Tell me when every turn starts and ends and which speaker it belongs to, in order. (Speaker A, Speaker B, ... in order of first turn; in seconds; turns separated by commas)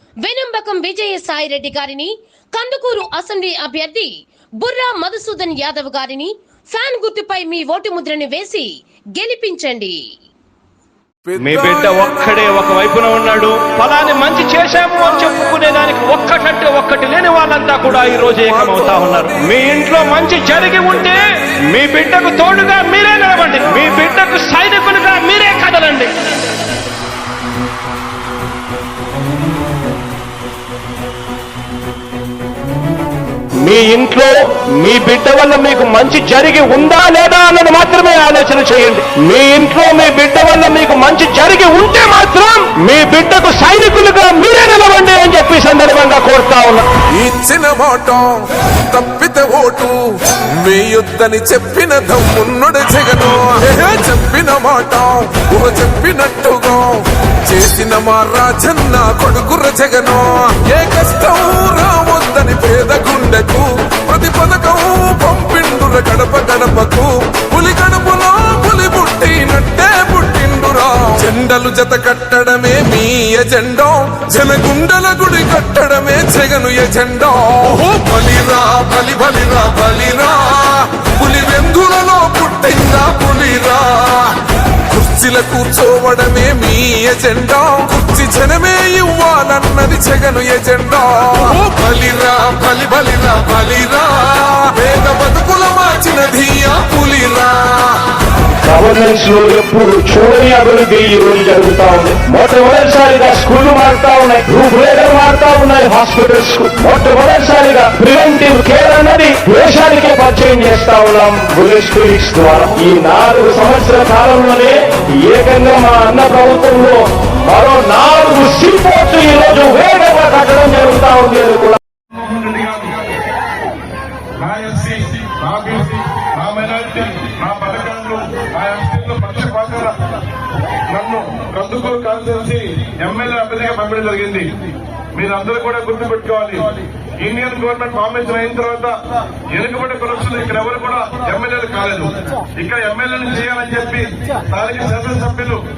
Speaker A: 0.2-10.0, Speaker B: 11.3-12.4, Speaker C: 11.4-26.1, Speaker B: 18.6-19.3, Speaker C: 33.6-46.9, Speaker B: 47.1-98.1, Speaker C: 98.7-121.8, Speaker D: 122.1-122.9, Speaker D: 124.4-130.0, Speaker D: 130.9-134.5, Speaker D: 135.2-136.7, Speaker D: 137.2-138.9, Speaker D: 139.5-145.6